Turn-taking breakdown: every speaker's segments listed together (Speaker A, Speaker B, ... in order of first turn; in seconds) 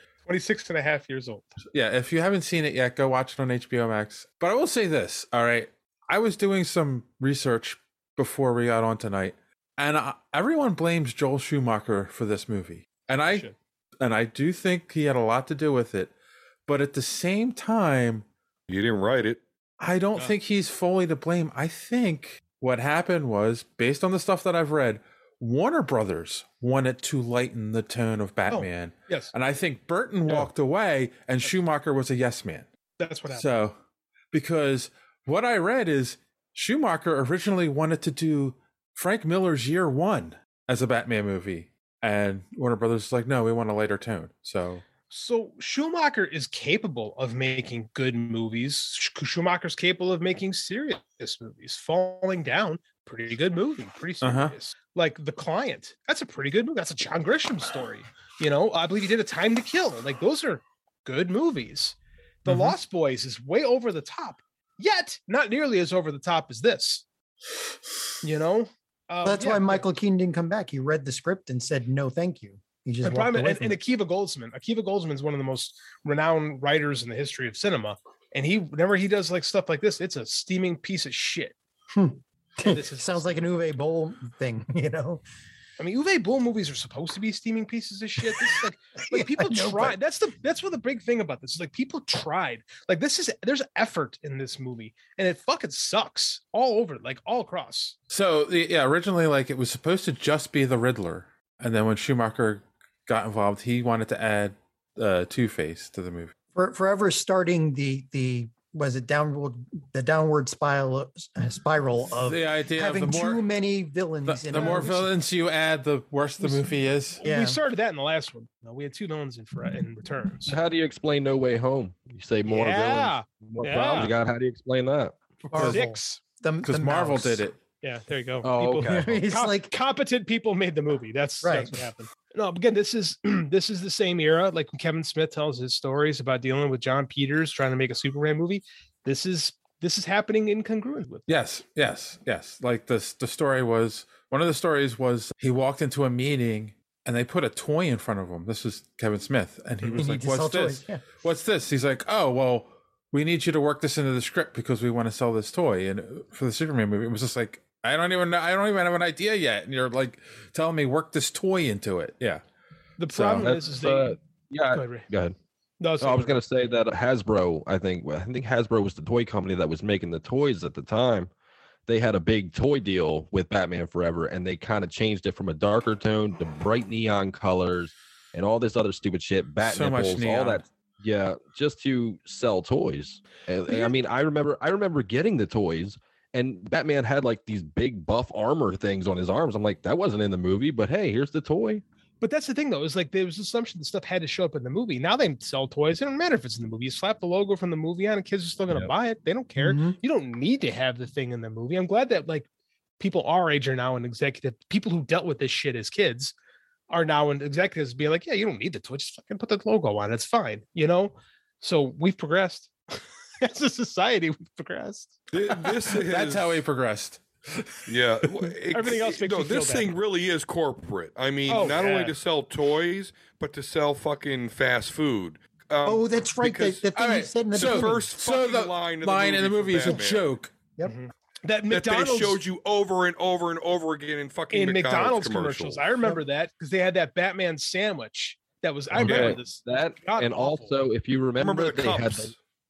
Speaker A: 0.3-1.5, 28.5-29.3, 33.0-33.5, 45.1-67.0, 68.2-69.9, 73.0-81.5, 82.6-83.3, 85.8-98.0, 114.5-114.9, 117.2-120.6, 122.5-124.1, 125.6-126.2, 127.8-141.3, 163.0-164.2, 164.7-165.1, 165.8-166.3, 183.7-183.9, 192.2-202.5, 203.0-206.3, 206.9-215.2, 218.7-219.9, 221.5-222.2, 230.8-232.4, 234.5-240.8
Speaker B: 1.7-13.5, 14.0-16.1, 16.7-18.3, 19.8-32.7, 33.3-33.8, 34.3-44.8, 54.2-54.5, 98.1-106.3, 112.2-113.4, 114.3-117.2, 125.5-125.8, 126.6-127.6, 128.4-129.0, 141.3-162.4, 179.6-180.6, 215.7-218.5, 226.9-230.5
Speaker C: 18.7-19.4, 215.3-216.6, 217.9-226.9, 227.5-230.3, 231.7-235.8, 239.1-239.4, 241.4-242.4
Speaker D: 69.2-73.8, 81.9-85.2, 89.1-90.0, 106.5-115.1, 117.2-117.6, 125.5-127.5, 128.8-129.7, 131.4-131.9, 149.9-151.1, 199.6-200.0, 225.8-228.0
Speaker E: 120.5-125.2, 128.6-128.8, 163.1-165.4, 166.0-171.3, 171.9-191.8, 238.9-242.3